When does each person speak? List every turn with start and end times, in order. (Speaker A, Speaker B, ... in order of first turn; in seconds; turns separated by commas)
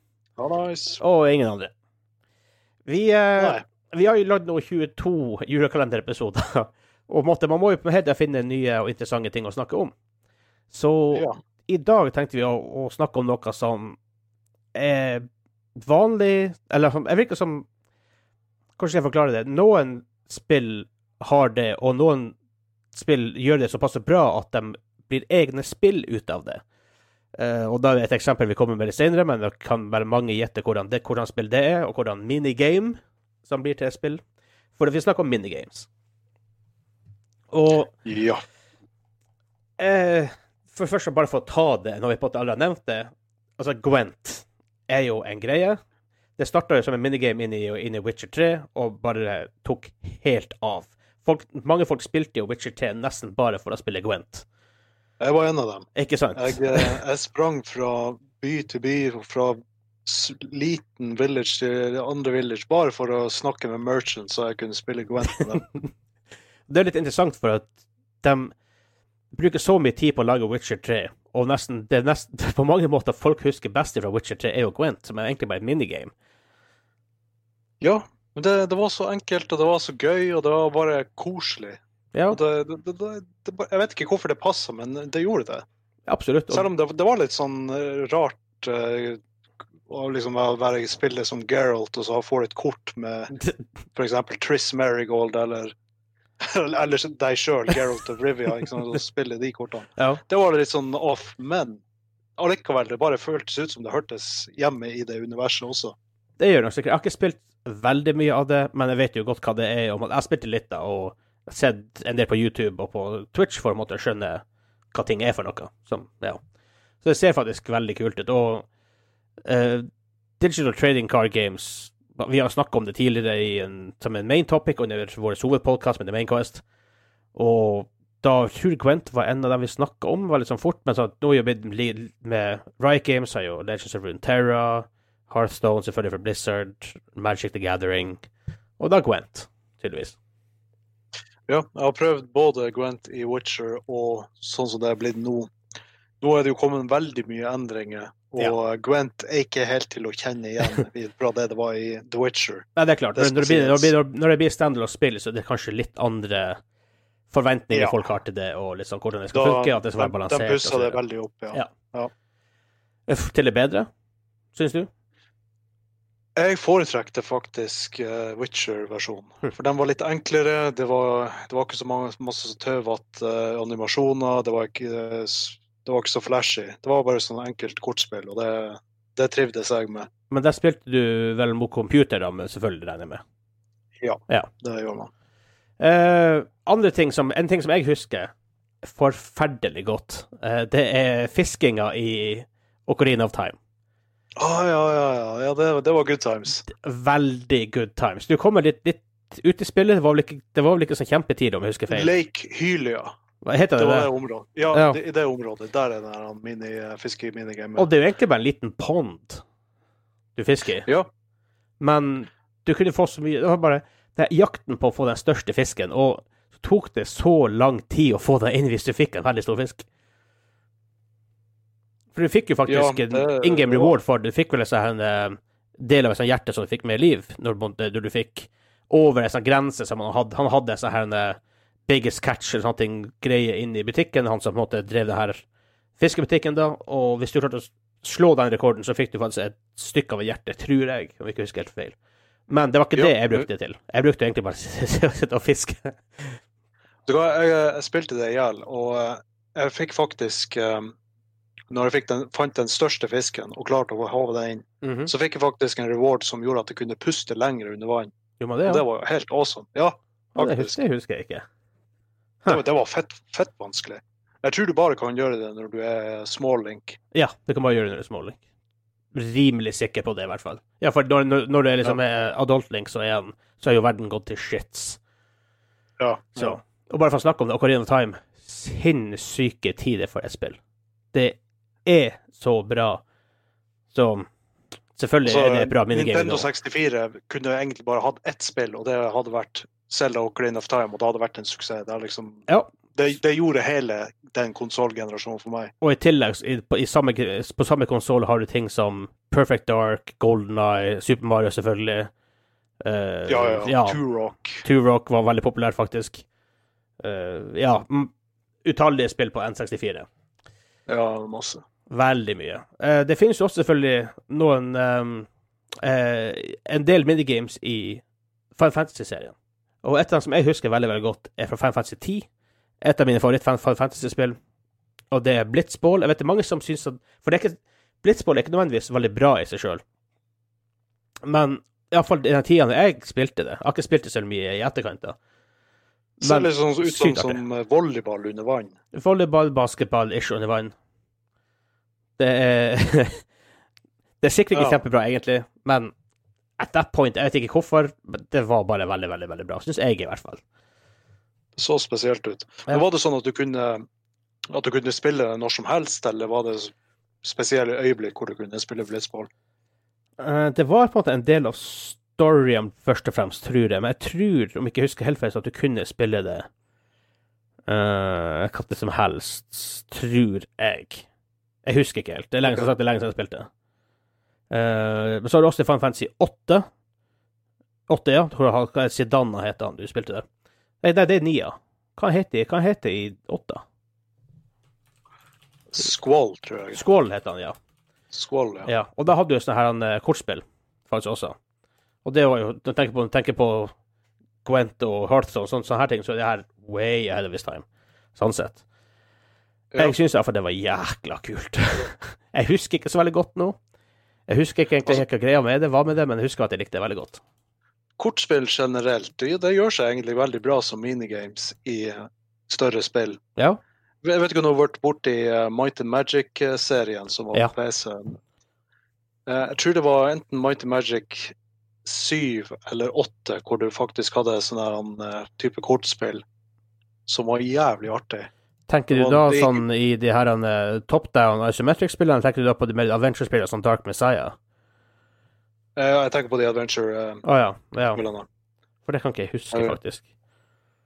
Speaker A: 0.4-1.0, Speaker B: 1.0-1.7, Speaker B: 2.9-9.9, Speaker A: 3.4-3.6, Speaker B: 10.7-14.0, Speaker A: 11.1-11.4, Speaker B: 14.8-17.7, Speaker B: 18.8-22.4, Speaker B: 22.9-26.6, Speaker B: 27.4-34.2, Speaker B: 34.8-35.9, Speaker B: 37.5-37.9, Speaker A: 38.0-38.4, Speaker B: 39.8-45.8, Speaker B: 46.4-54.5, Speaker A: 55.2-65.7, Speaker B: 56.0-57.0, Speaker B: 65.6-65.9, Speaker B: 66.7-68.5, Speaker B: 69.3-76.1, Speaker A: 77.8-81.8, Speaker B: 82.1-82.4, Speaker A: 82.3-85.7, Speaker B: 86.1-86.7, Speaker A: 86.5-89.2, Speaker A: 89.9-93.3, Speaker B: 93.4-93.6, Speaker A: 94.0-95.7, Speaker A: 96.4-101.8, Speaker B: 100.0-100.2, Speaker A: 102.4-106.0, Speaker B: 106.4-116.4, Speaker B: 117.0-118.7, Speaker B: 119.5-119.9, Speaker B: 120.4-126.6, Speaker B: 127.3-138.2, Speaker B: 138.8-140.2, Speaker A: 141.5-145.5, Speaker A: 146.2-153.9, Speaker B: 152.8-156.6, Speaker B: 157.3-161.0, Speaker A: 157.7-158.0, Speaker A: 159.3-162.1, Speaker B: 163.1-163.9, Speaker B: 164.5-164.9, Speaker A: 166.4-180.1, Speaker B: 180.3-183.2, Speaker A: 184.0-185.1, Speaker B: 185.8-188.3, Speaker B: 188.8-193.6, Speaker A: 194.4-196.6, Speaker B: 196.7-202.1, Speaker A: 201.9-203.2, Speaker B: 203.4-204.1, Speaker A: 203.8-207.9, Speaker B: 204.7-205.0, Speaker B: 207.8-209.4, Speaker B: 210.4-210.9, Speaker B: 211.8-219.8, Speaker B: 222.1-235.4, Speaker A: 222.7-224.0, Speaker B: 236.0-242.0, Speaker B: 242.5-246.4, Speaker A: 242.9-243.5, Speaker A: 247.1-251.0, Speaker A: 251.7-258.1, Speaker B: 254.8-255.1, Speaker B: 258.4-258.8, Speaker A: 258.7-260.8, Speaker B: 260.4-261.5, Speaker A: 262.5-267.0, Speaker B: 267.1-268.4, Speaker B: 269.1-275.0, Speaker A: 276.0-276.6, Speaker B: 276.4-280.6, Speaker B: 281.1-283.0, Speaker B: 283.9-284.3, Speaker B: 285.0-286.5, Speaker A: 285.2-295.7, Speaker B: 292.5-292.8, Speaker B: 295.8-302.1, Speaker B: 302.8-304.0, Speaker A: 303.3-304.6, Speaker B: 304.6-306.2, Speaker B: 307.0-308.1, Speaker B: 308.6-310.1, Speaker A: 310.9-311.6, Speaker B: 311.9-315.3, Speaker B: 315.8-318.0, Speaker B: 318.6-322.3, Speaker B: 322.8-324.4, Speaker B: 325.1-329.8, Speaker B: 331.2-335.2, Speaker A: 336.2-338.8, Speaker B: 336.2-337.4, Speaker B: 338.9-340.7, Speaker B: 342.2-343.3, Speaker B: 344.2-345.9, Speaker A: 344.5-344.8, Speaker B: 346.6-350.4, Speaker A: 351.6-353.9, Speaker A: 354.5-359.3, Speaker B: 360.2-366.5, Speaker B: 367.7-371.1, Speaker B: 371.6-373.5, Speaker A: 372.4-372.7, Speaker B: 374.5-376.7, Speaker B: 377.9-380.2, Speaker B: 380.8-383.6, Speaker A: 385.7-386.8, Speaker B: 386.7-387.6, Speaker A: 388.1-388.7, Speaker B: 388.6-391.4, Speaker B: 392.1-393.7, Speaker B: 394.4-398.6, Speaker B: 399.8-403.6, Speaker B: 404.3-407.2, Speaker A: 408.0-413.2, Speaker A: 414.0-418.2, Speaker A: 419.3-426.2, Speaker A: 427.1-428.3, Speaker B: 428.7-434.4, Speaker A: 428.9-429.6, Speaker A: 435.8-437.2, Speaker B: 437.2-438.0, Speaker A: 437.9-438.3, Speaker B: 438.9-440.0